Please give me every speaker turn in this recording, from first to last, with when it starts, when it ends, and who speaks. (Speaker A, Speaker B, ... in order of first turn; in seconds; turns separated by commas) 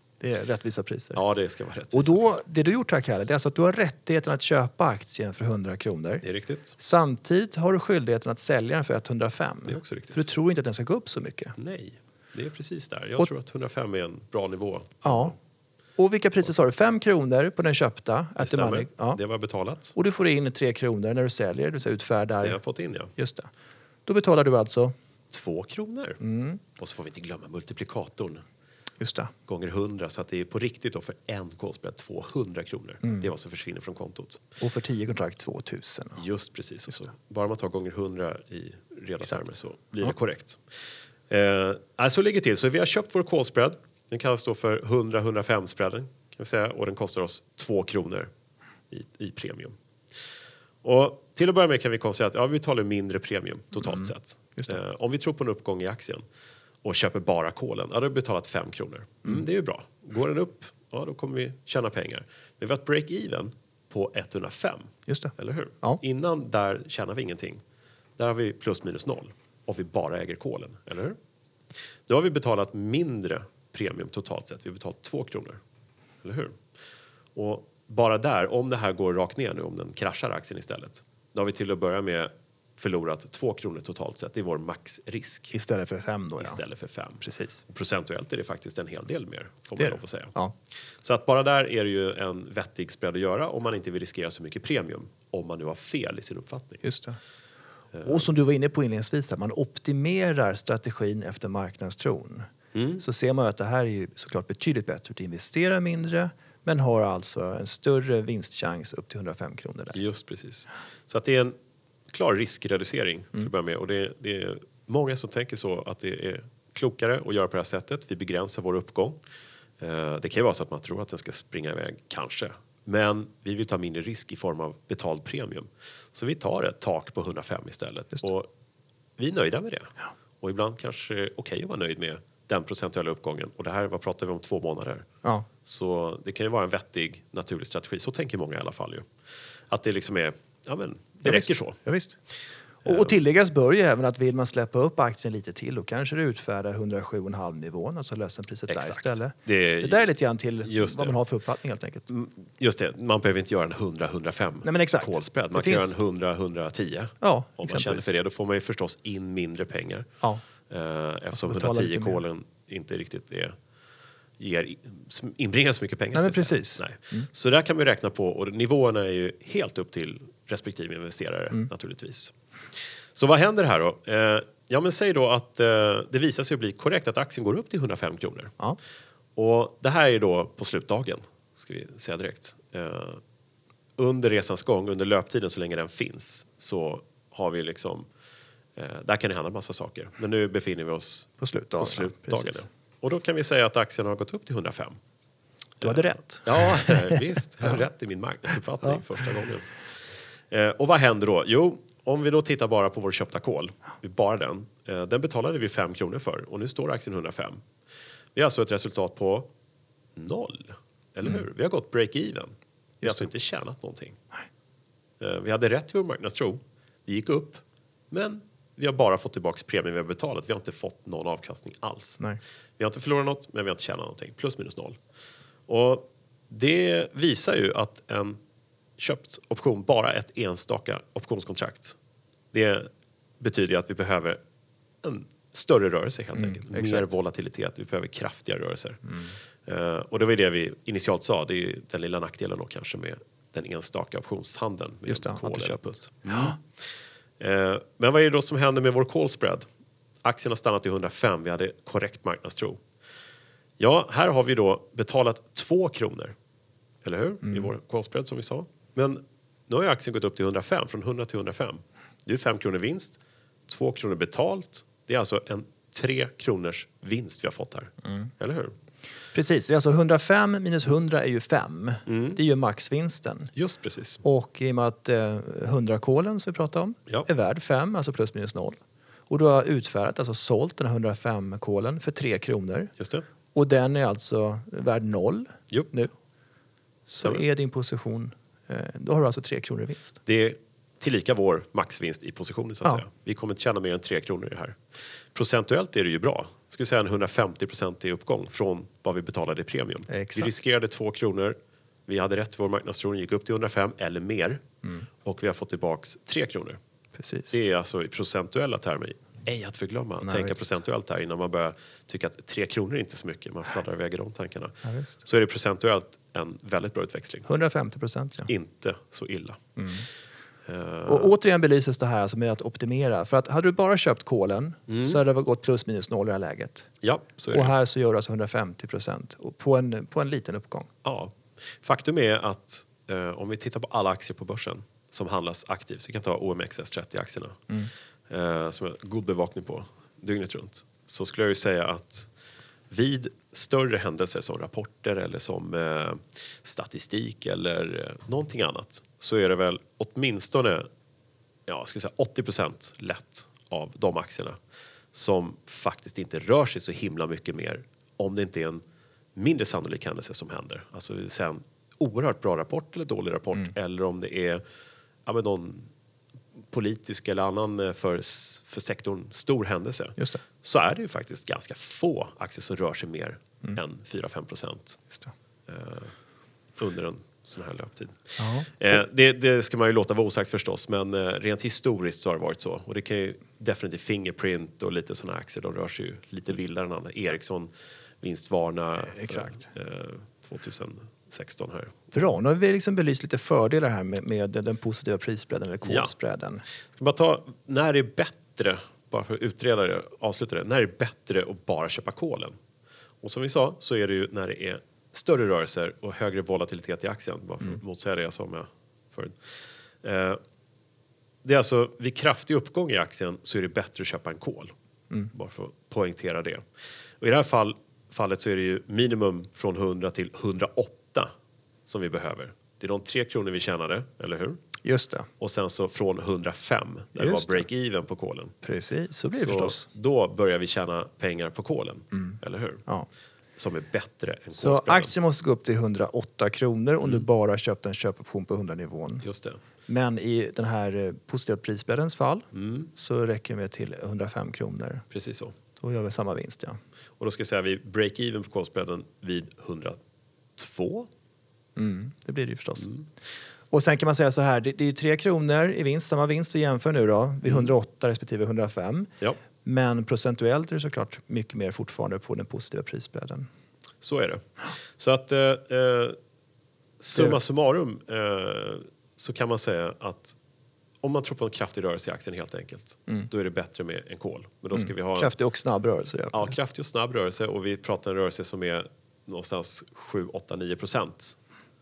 Speaker A: 0.2-1.2, Speaker B: 1.1-2.4, Speaker A: 1.9-6.2, Speaker B: 6.2-6.8, Speaker A: 6.8-11.6, Speaker B: 9.7-10.3, Speaker B: 11.6-15.4, Speaker A: 15.0-15.3, Speaker A: 16.0-19.2, Speaker B: 18.4-19.9, Speaker A: 19.9-22.6, Speaker B: 22.4-23.1, Speaker A: 23.2-23.5, Speaker A: 24.1-24.9, Speaker B: 25.3-26.2, Speaker A: 26.2-26.6, Speaker B: 26.8-28.4, Speaker A: 29.0-29.3, Speaker B: 29.5-34.5, Speaker A: 34.6-36.2, Speaker B: 36.2-40.6, Speaker B: 41.3-48.3, Speaker B: 48.9-49.8, Speaker B: 50.8-56.2, Speaker A: 53.8-54.8, Speaker B: 56.8-67.6, Speaker A: 65.1-66.0, Speaker B: 68.2-71.2, Speaker B: 72.1-75.6, Speaker B: 76.2-76.6, Speaker B: 77.3-85.5, Speaker A: 85.5-86.6, Speaker B: 86.4-90.3, Speaker A: 89.8-90.5, Speaker B: 91.0-96.8, Speaker A: 96.8-97.2, Speaker B: 97.9-98.2, Speaker A: 98.0-102.5, Speaker B: 102.7-103.0, Speaker A: 103.0-110.0, Speaker B: 109.9-111.5, Speaker B: 112.1-119.2, Speaker B: 119.8-128.5, Speaker B: 129.2-135.1, Speaker B: 135.6-139.1, Speaker B: 139.7-141.8, Speaker A: 141.2-142.2, Speaker A: 142.8-152.1, Speaker B: 142.8-143.1, Speaker B: 148.7-150.1, Speaker B: 150.6-151.2, Speaker B: 152.1-160.1, Speaker A: 154.6-155.9, Speaker A: 157.2-158.1, Speaker B: 160.7-163.6, Speaker A: 161.3-162.2, Speaker B: 164.4-172.3, Speaker A: 166.1-167.3, Speaker B: 173.1-178.6, Speaker B: 179.4-183.2, Speaker B: 184.0-188.1, Speaker B: 188.8-195.0, Speaker A: 191.4-192.6, Speaker B: 195.8-199.9, Speaker A: 195.8-197.7, Speaker B: 200.5-207.6, Speaker B: 208.3-209.5, Speaker B: 210.2-214.2, Speaker A: 213.0-213.3, Speaker B: 215.2-222.2, Speaker B: 222.8-225.0, Speaker B: 225.7-228.4, Speaker B: 229.0-232.0, Speaker B: 232.5-232.9, Speaker B: 233.4-234.4, Speaker B: 235.0-246.6, Speaker A: 236.4-237.1, Speaker A: 245.1-246.6, Speaker B: 247.4-249.7, Speaker B: 250.2-252.8, Speaker B: 253.8-256.4, Speaker B: 257.0-268.7, Speaker A: 257.4-257.7, Speaker A: 269.3-273.5, Speaker B: 272.1-272.4, Speaker B: 273.6-274.2, Speaker A: 274.2-282.9, Speaker B: 283.0-283.3, Speaker A: 283.5-286.1, Speaker A: 287.1-290.2, Speaker B: 290.3-294.8, Speaker B: 295.3-304.6, Speaker A: 300.1-300.5, Speaker B: 305.2-306.8, Speaker A: 307.2-307.6, Speaker B: 307.5-317.5, Speaker A: 310.2-310.7, Speaker A: 314.8-315.2, Speaker A: 317.5-318.5, Speaker B: 318.5-319.6, Speaker A: 319.8-320.1, Speaker B: 320.7-321.3, Speaker A: 321.1-326.9, Speaker B: 324.9-325.2, Speaker B: 327.0-327.7, Speaker A: 327.5-330.9, Speaker B: 331.0-337.7, Speaker B: 338.3-342.3, Speaker B: 342.9-350.9, Speaker B: 351.7-354.6, Speaker B: 355.1-358.8, Speaker B: 359.4-364.6, Speaker B: 365.3-365.9, Speaker B: 366.7-375.0, Speaker B: 375.7-376.1, Speaker B: 376.8-392.1, Speaker A: 378.4-379.0, Speaker A: 389.1-389.6, Speaker A: 392.1-396.6, Speaker B: 395.9-396.1, Speaker B: 396.9-402.6, Speaker B: 403.2-409.4, Speaker B: 410.0-410.4, Speaker B: 411.4-414.7, Speaker B: 415.3-416.6, Speaker B: 417.2-421.3, Speaker B: 421.9-424.6, Speaker A: 424.8-425.3, Speaker B: 425.4-428.5, Speaker A: 427.2-427.7, Speaker A: 428.6-429.9, Speaker B: 429.4-432.9, Speaker A: 432.1-433.1, Speaker B: 433.6-435.1, Speaker A: 434.6-439.2, Speaker B: 439.2-439.6, Speaker A: 439.9-445.1, Speaker B: 442.5-442.9, Speaker B: 445.1-445.6, Speaker A: 445.8-446.8, Speaker B: 447.2-450.0, Speaker B: 450.6-451.1, Speaker A: 451.8-452.9, Speaker B: 452.8-453.1, Speaker A: 453.7-459.1, Speaker A: 459.6-463.5, Speaker B: 464.0-466.2, Speaker B: 467.0-470.4, Speaker B: 471.0-475.3, Speaker A: 474.8-476.5, Speaker B: 476.3-481.4